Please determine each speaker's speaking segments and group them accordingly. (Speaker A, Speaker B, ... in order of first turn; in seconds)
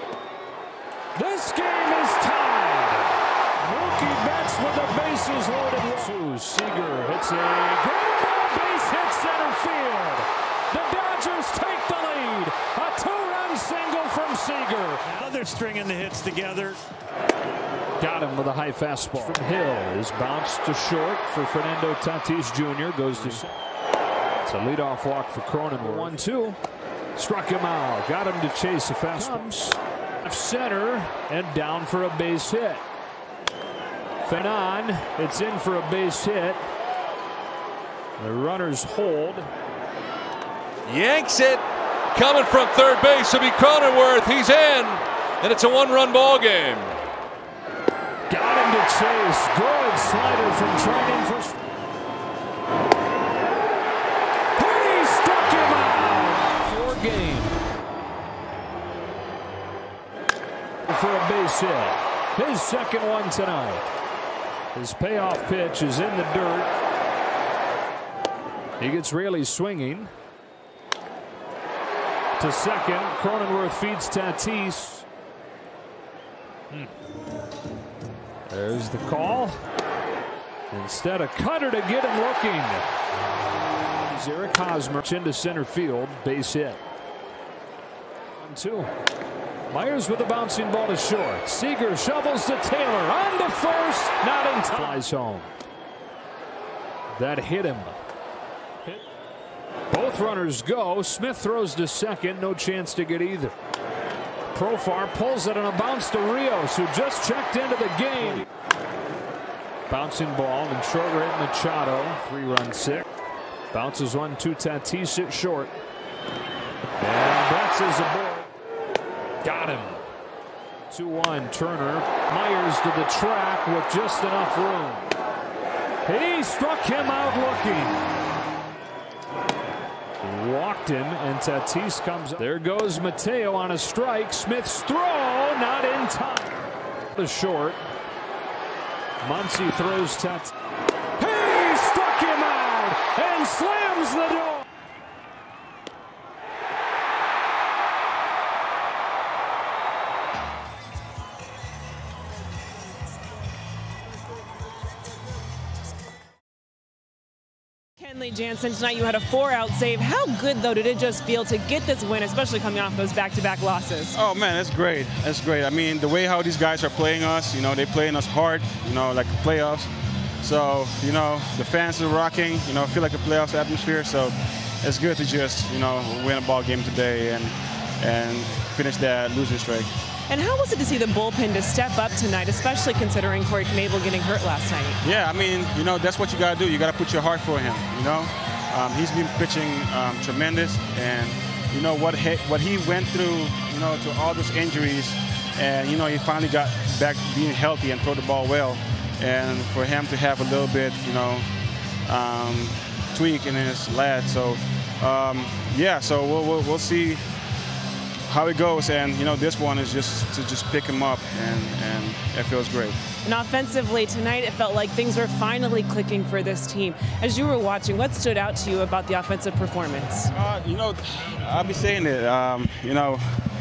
Speaker A: 1.1-15.1, 18.0-23.5, 24.4-26.6, 27.2-32.8, 34.2-36.6, 38.2-39.5, 48.3-51.6, 54.6-57.5, 60.9-63.9, 64.7-66.8, 68.8-70.1, 72.4-75.0, 78.5-79.6, 80.7-82.9, 84.0-86.8, 88.4-88.9, 89.7-95.5, 97.1-98.0, 99.9-103.5, 104.5-108.5, 109.9-113.1, 113.7-115.7, 117.0-118.5, 119.4-120.0, 120.9-125.1, 126.1-127.9, 130.2-136.6, 137.1-137.8, 139.2-140.5, 141.2-144.7
Speaker B: 15.1-16.8, 23.2-23.4, 25.8-26.1
Speaker C: 40.9-47.0
Speaker D: 158.0-164.2, 180.3-185.0, 213.2-220.3
Speaker E: 164.1-169.9, 170.4-179.9, 185.0-201.5, 202.1-207.2, 208.3-213.0, 220.3-223.2